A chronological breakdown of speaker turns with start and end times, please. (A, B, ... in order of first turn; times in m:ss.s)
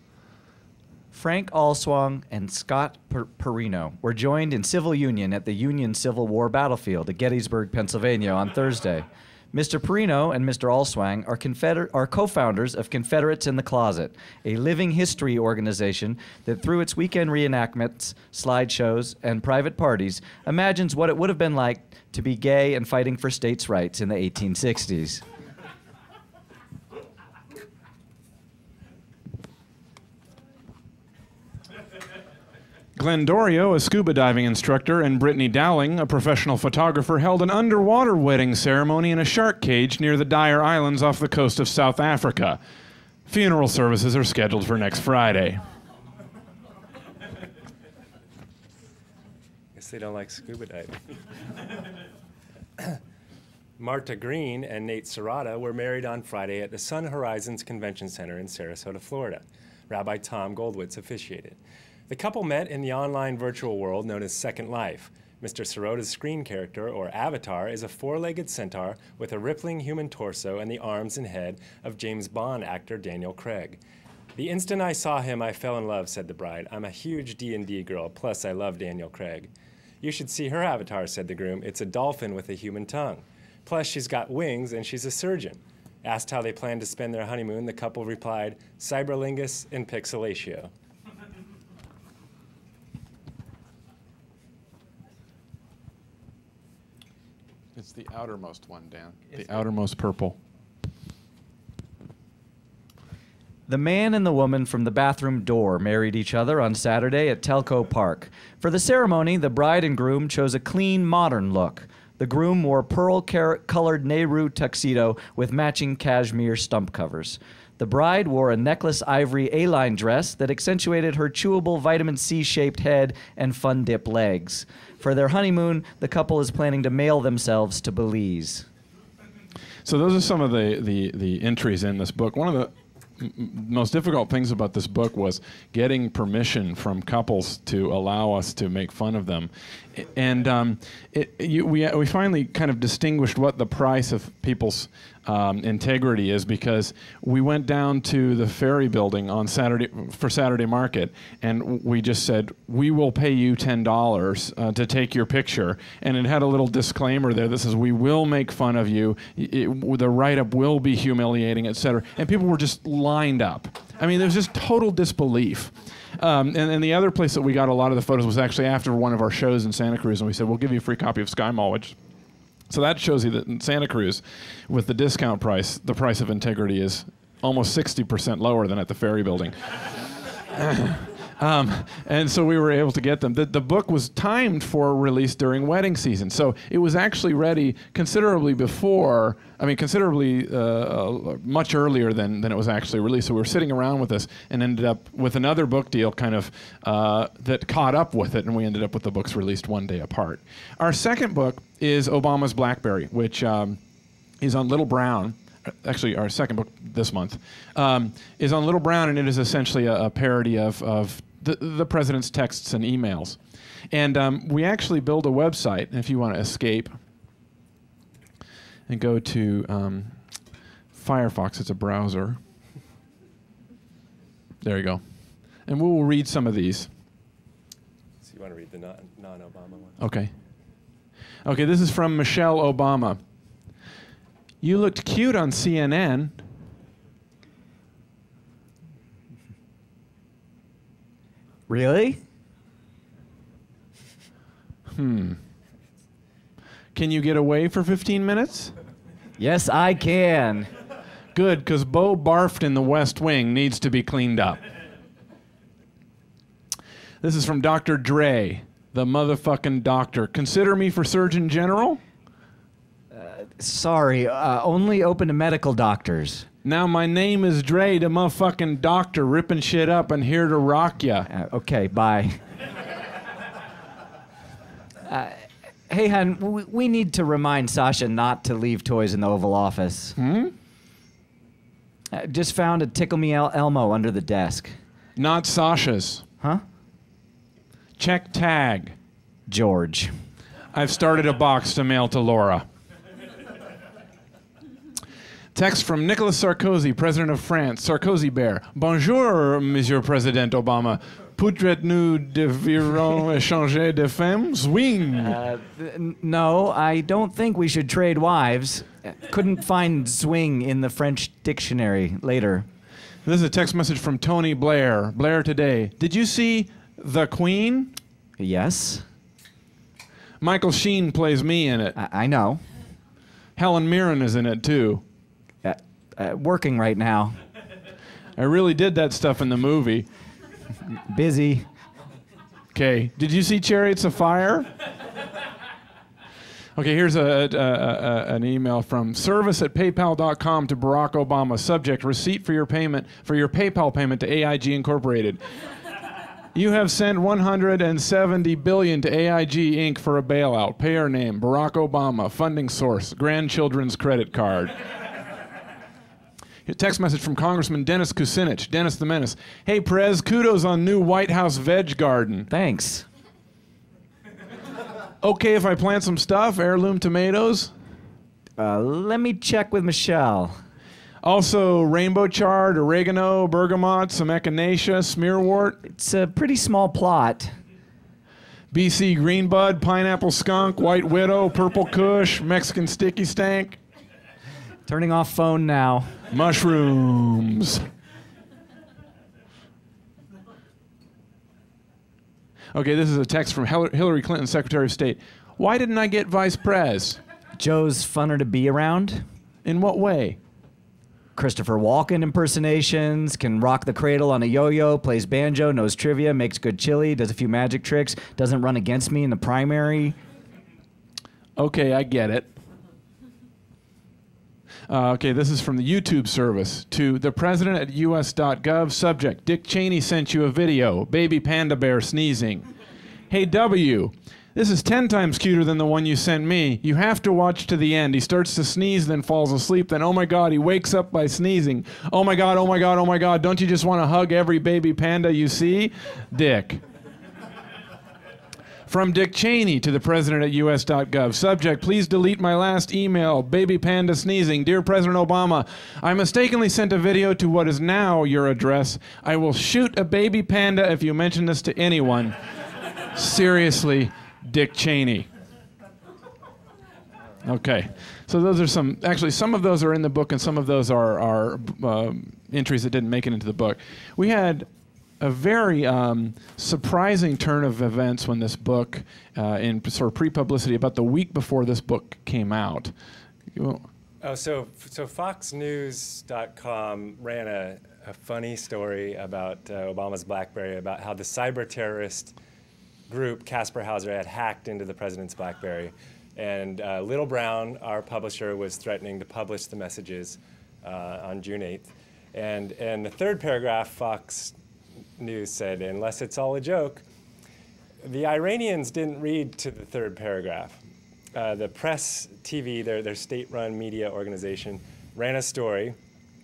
0:01.1-0:25.2 A
0:33.0-0:42.6 B
0:43.3-0:45.6 B
0:49.7-0:51.0 C
0:53.8-1:13.8 C
1:14.3-1:19.5 C
1:20.0-1:30.7 C
1:37.7-1:40.4 B
1:43.7-2:08.6 A
2:09.8-2:52.0 B
2:52.7-3:00.0 B
3:00.5-3:23.8 B
3:24.4-3:33.4 B
3:33.9-3:37.0 B
3:38.9-3:40.2 B
3:40.9-3:42.4 B
3:44.6-3:45.0 B
3:45.6-3:46.9 B
3:48.2-3:50.0 C
3:50.0-3:50.3 B
3:51.4-3:53.2 B
3:54.6-3:56.4 B
4:01.7-4:02.2 A
4:04.9-4:05.4 B
4:06.9-4:08.7 B
4:09.4-4:10.7 A
4:11.3-4:14.6 B
4:17.2-4:22.0 B
4:23.1-4:26.4 A
4:26.6-4:31.3 B
4:31.3-4:32.4 A
4:35.0-4:40.2 A
4:40.2-4:40.5 B
4:42.1-4:44.8 A
4:45.2-4:46.2 B
4:48.0-4:49.0 B
4:49.5-4:50.1 A
4:50.7-4:52.7 B
4:55.5-5:05.4 B
5:05.2-5:12.6 A
5:13.2-5:18.0 B
5:18.4-5:19.0 A
5:20.4-5:22.0 B
5:21.9-5:22.6 A
5:23.6-5:25.0 B
5:25.6-5:27.4 A
5:28.4-5:30.1 B
5:31.0-5:31.6 A
5:32.7-5:34.7 B
5:36.8-5:45.4 B
5:46.5-5:54.8 B
5:56.6-6:02.5 B
6:02.5-6:03.0 A
6:05.2-6:07.7 B
6:08.6-6:10.6 A
6:11.2-6:15.8 B
6:15.8-6:17.6 A
6:18.7-6:23.8 B
6:24.9-6:26.2 A
6:26.3-6:27.9 B
6:32.7-6:37.2 B
6:37.6-6:39.2 A
6:39.6-6:40.4 B
6:41.4-6:50.2 A
6:51.6-6:52.5 B
6:54.9-7:02.7 B
7:03.3-7:16.8 B
7:18.9-7:32.4 B
7:33.1-7:35.3 B
7:37.4-7:44.7 B
7:45.2-7:52.9 B
7:53.5-7:53.8 B
7:54.2-8:02.4 C
8:03.1-8:14.5 C
8:15.2-8:17.0 C
8:18.0-8:20.8 C
8:21.3-8:26.0 C